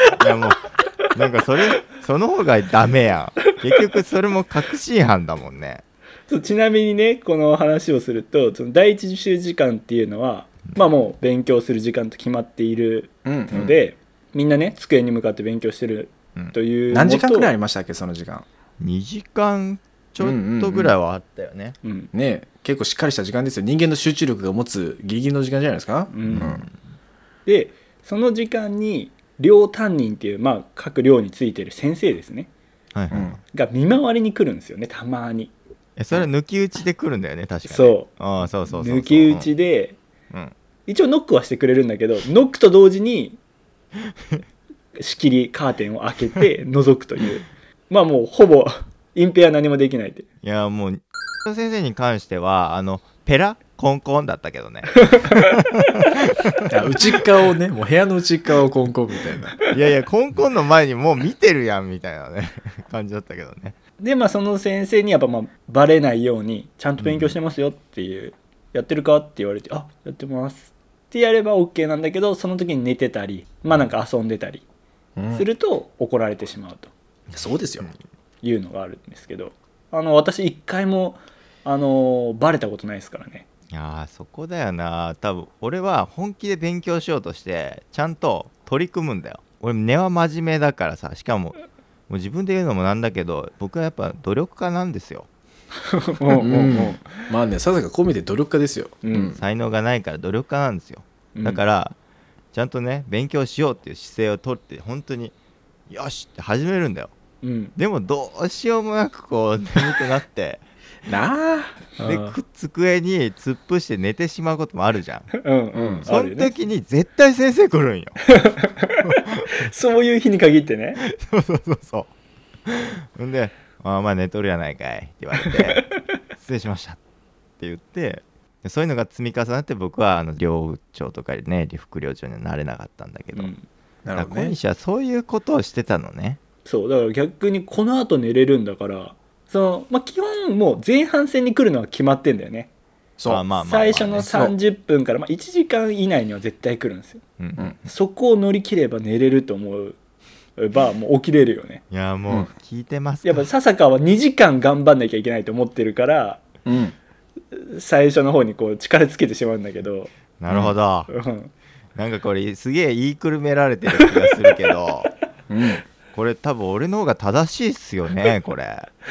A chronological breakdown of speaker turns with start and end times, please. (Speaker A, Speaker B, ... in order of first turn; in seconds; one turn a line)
Speaker A: 0.1-5.8
Speaker B: 6.3-17.5
Speaker C: 13.2-13.7
Speaker C: 16.9-18.5
Speaker A: 18.8-21.8
Speaker C: 20.2-20.9
Speaker B: 21.8-22.1
Speaker C: 22.1-26.6
Speaker B: 26.1-26.5
Speaker A: 26.3-26.7
Speaker B: 27.5-32.5
Speaker A: 32.9-33.4
Speaker C: 33.1-33.4
Speaker B: 33.5-35.5
Speaker A: 36.0-39.5
Speaker B: 37.7-38.1
Speaker B: 38.7-40.0
Speaker B: 40.9-43.4
Speaker B: 45.0-50.3
Speaker A: 50.4-56.7
Speaker B: 55.0-55.5
Speaker C: 56.7-59.6
Speaker A: 59.7-63.8
Speaker B: 64.0-74.6
Speaker A: 67.0-67.3
Speaker C: 75.2-75.5
Speaker B: 75.3-76.9
Speaker C: 77.3-77.9
Speaker B: 78.4-83.5
Speaker A: 83.7-95.3
Speaker B: 95.9-97.0
Speaker C: 96.4-99.4
Speaker B: 99.0-99.4
Speaker A: 99.4-102.0
Speaker B: 101.3-101.6
Speaker A: 102.5-105.3
Speaker A: 105.9-107.1
Speaker B: 107.4-107.7
Speaker A: 107.8-110.6
Speaker C: 111.1-112.0
Speaker B: 112.0-112.3
Speaker A: 112.0-115.4
Speaker B: 115.4-116.5
Speaker C: 115.8-116.1
Speaker A: 116.0-118.3
Speaker B: 118.3-121.0
Speaker A: 119.1-119.5
Speaker A: 121.0-122.1
Speaker A: 122.7-125.8
Speaker B: 125.4-126.0
Speaker A: 126.4-127.0
Speaker A: 127.6-133.5
Speaker B: 133.3-133.7
Speaker C: 134.1-134.6
Speaker A: 134.2-136.4
Speaker B: 136.7-142.7
Speaker C: 143.2-143.4
Speaker A: 143.3-144.3
Speaker B: 143.6-147.2
Speaker C: 144.3-144.6
Speaker A: 147.4-147.8
Speaker B: 147.8-150.0
Speaker B: 150.6-151.8
Speaker A: 151.9-153.5
Speaker B: 153.2-156.4
Speaker C: 156.7-157.0
Speaker B: 157.5-160.1
Speaker A: 160.4-161.1
Speaker C: 160.5-160.7
Speaker B: 161.1-161.5
Speaker A: 162.0-165.1
Speaker C: 165.5-165.8
Speaker A: 166.1-168.9